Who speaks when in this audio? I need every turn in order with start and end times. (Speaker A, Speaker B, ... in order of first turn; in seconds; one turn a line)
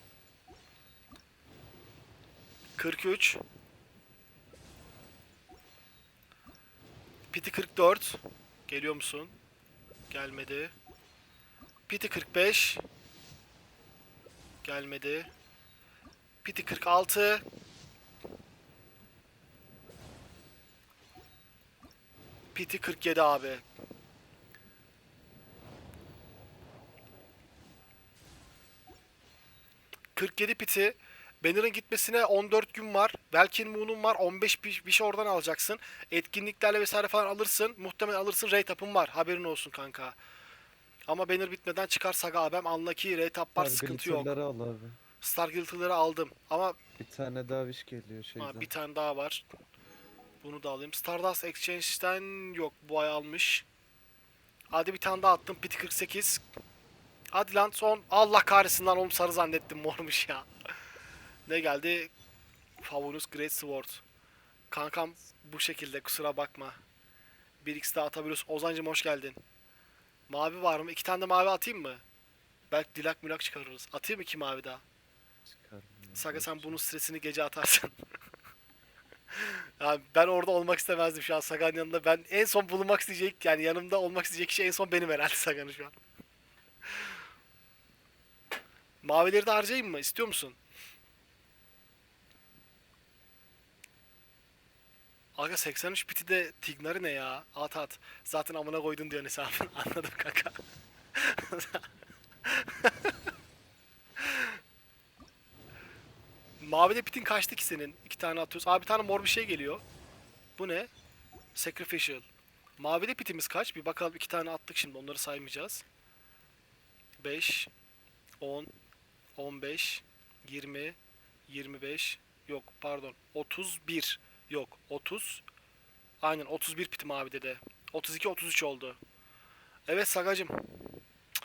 Speaker A: 2.8-3.4
Speaker A: 7.3-9.3
Speaker A: 10.1-10.7
Speaker A: 11.9-12.8
Speaker A: 14.6-15.3
Speaker A: 16.4-17.4
Speaker A: 22.5-23.6
Speaker A: 30.2-40.2
Speaker A: 41.1-44.3
Speaker B: 43.6-45.0
Speaker A: 45.2-46.8
Speaker B: 47.0-48.7
Speaker A: 48.4-49.5
Speaker A: 50.4-53.7
Speaker A: 54.7-56.4
Speaker A: 57.3-60.5
Speaker A: 61.5-62.1
Speaker A: 62.8-64.0
Speaker A: 64.7-66.8
Speaker A: 67.6-69.4
Speaker A: 70.3-72.0
Speaker A: 72.7-74.8
Speaker B: 75.5-76.8
Speaker A: 76.2-77.9
Speaker A: 79.4-86.0
Speaker A: 89.0-90.6
Speaker A: 95.4-100.6
Speaker A: 101.2-101.8
Speaker A: 102.5-103.1
Speaker A: 104.2-104.5
Speaker A: 106.6-109.8
Speaker A: 110.6-110.9
Speaker A: 111.5-112.3
Speaker A: 112.8-115.8
Speaker A: 117.2-117.7
Speaker A: 118.4-118.7
Speaker A: 119.4-121.0
Speaker A: 121.5-125.4
Speaker A: 126.2-129.0
Speaker A: 129.9-130.7